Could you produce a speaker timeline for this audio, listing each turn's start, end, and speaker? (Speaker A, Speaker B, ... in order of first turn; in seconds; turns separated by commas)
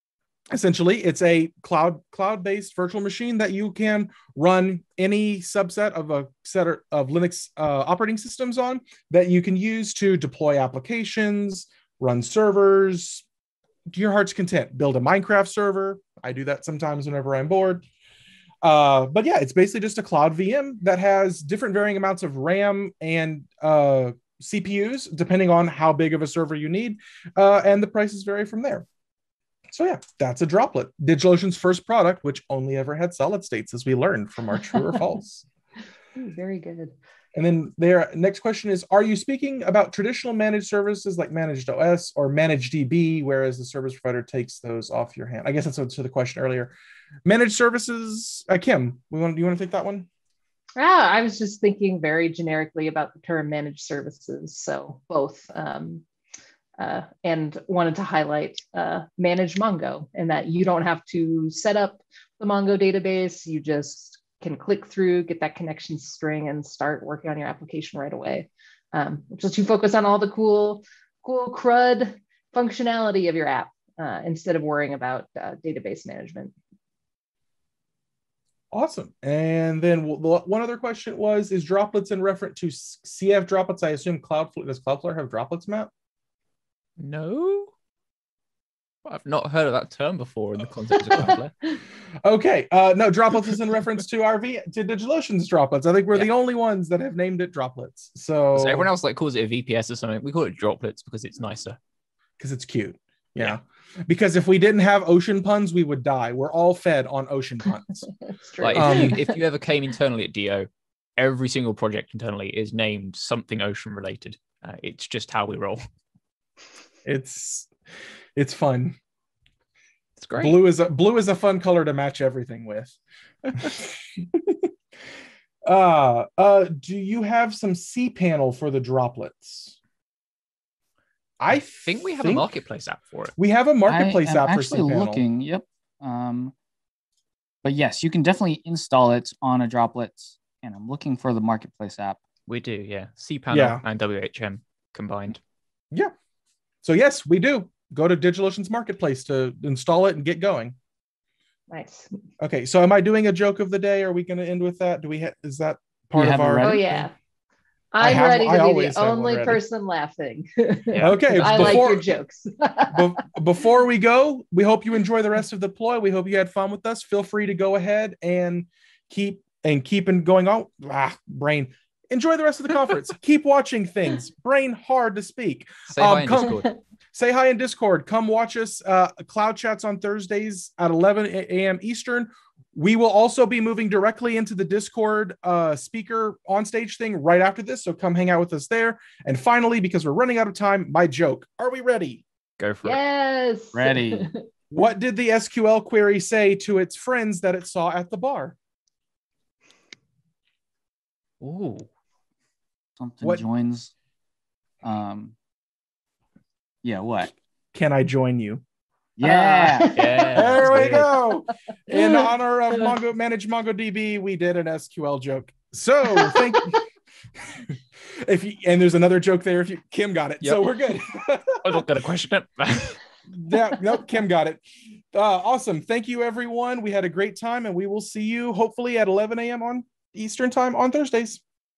Speaker A: 0.5-13.2, Speaker A: 13.9-17.8, Speaker A: 18.6-28.8, Speaker A: 29.7-35.5, Speaker B: 36.1-36.9, Speaker A: 37.3-46.7, Speaker A: 47.2-50.1, Speaker B: 50.8-56.0, Speaker B: 56.8-76.5, Speaker A: 78.7-85.9, Speaker C: 87.0-87.7, Speaker C: 89.0-91.5, Speaker A: 92.2-98.9, Speaker C: 98.5-101.8, Speaker A: 102.4-108.1, Speaker B: 108.3-109.4, Speaker C: 108.6-115.8, Speaker A: 108.7-109.2, Speaker A: 117.0-117.7, Speaker A: 118.3-119.0, Speaker C: 120.2-120.6, Speaker A: 120.4-124.7, Speaker A: 125.7-129.8, Speaker A: 131.4-132.5, Speaker C: 131.8-133.3, Speaker A: 133.4-135.2, Speaker D: 133.9-136.5, Speaker D: 137.6-142.2, Speaker C: 142.5-145.4, Speaker A: 143.5-143.8, Speaker A: 146.8-150.8, Speaker B: 151.7-152.1, Speaker A: 152.4-157.0, Speaker D: 156.1-157.0, Speaker B: 156.6-157.1, Speaker B: 157.9-163.2, Speaker A: 158.0-159.6, Speaker C: 160.9-161.9, Speaker A: 161.0-162.1, Speaker A: 162.9-192.2, Speaker C: 175.9-176.7, Speaker C: 192.6-193.0, Speaker B: 192.8-194.4, Speaker D: 193.7-194.3, Speaker A: 194.7-198.6, Speaker C: 201.4-201.9, Speaker D: 203.0-203.9, Speaker D: 204.8-205.3, Speaker D: 206.8-207.3, Speaker A: 207.7-208.6, Speaker D: 209.2-209.9, Speaker B: 209.2-210.5, Speaker C: 209.9-211.1, Speaker A: 210.3-216.8, Speaker B: 211.9-212.9, Speaker B: 216.2-216.6, Speaker A: 217.5-221.8, Speaker C: 221.6-223.0, Speaker A: 223.3-231.4